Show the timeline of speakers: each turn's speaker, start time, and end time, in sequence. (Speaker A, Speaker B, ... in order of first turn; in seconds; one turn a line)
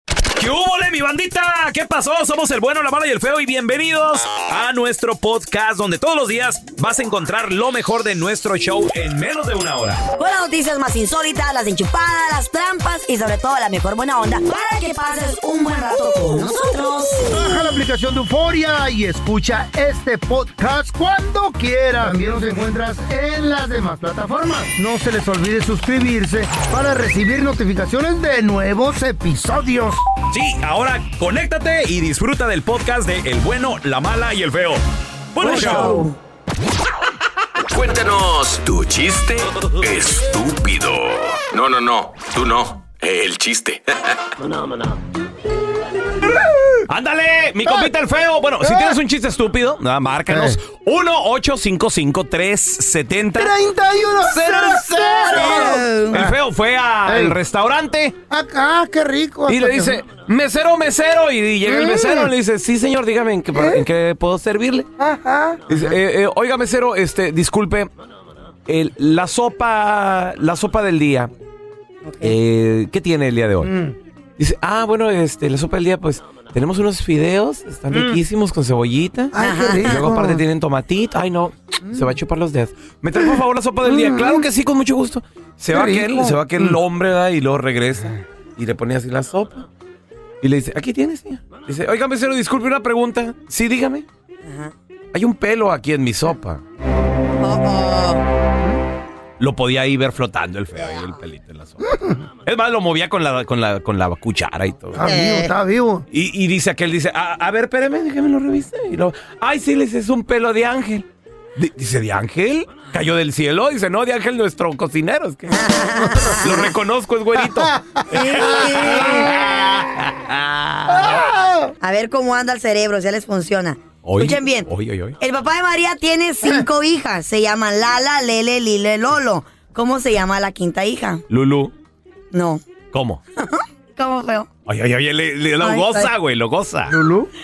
Speaker A: 0.3-10.0
Speaker B: 10.2-17.6
Speaker C: 17.2-30.0
Speaker A: 30.3-34.8
Speaker A: 35.3-36.1
Speaker B: 35.4-36.1
Speaker D: 37.7-44.0
Speaker A: 46.9-53.5
Speaker C: 50.3-50.6
Speaker C: 53.4-56.3
Speaker A: 54.2-58.1
Speaker B: 55.3-56.1
Speaker C: 57.1-57.4
Speaker C: 58.3-60.0
Speaker A: 59.5-64.9
Speaker C: 61.6-62.3
Speaker C: 63.5-63.8
Speaker C: 65.0-65.6
Speaker A: 65.7-67.9
Speaker A: 68.7-71.3
Speaker B: 72.0-72.3
Speaker A: 72.2-73.7
Speaker C: 73.6-73.9
Speaker A: 74.4-89.6
Speaker C: 77.9-78.2
Speaker C: 79.3-80.4
Speaker B: 79.4-80.0
Speaker C: 83.8-84.4
Speaker C: 85.7-86.8
Speaker A: 90.4-94.0
Speaker B: 94.5-94.7
Speaker A: 95.1-96.6
Speaker B: 97.4-98.2
Speaker A: 99.4-101.8
Speaker C: 101.8-102.1
Speaker A: 102.4-105.0
Speaker C: 104.9-106.0
Speaker B: 105.0-105.5
Speaker A: 106.1-111.0
Speaker A: 111.5-115.6
Speaker B: 115.5-116.7
Speaker A: 116.3-121.2
Speaker B: 118.1-119.3
Speaker C: 118.4-119.0
Speaker C: 120.9-121.7
Speaker B: 121.8-124.7
Speaker A: 124.0-125.2
Speaker B: 125.2-131.2
Speaker A: 131.3-131.7
Speaker B: 132.3-132.6
Speaker A: 132.9-133.2
Speaker B: 133.4-134.5
Speaker A: 134.7-136.9
Speaker B: 135.6-136.1
Speaker C: 136.9-137.3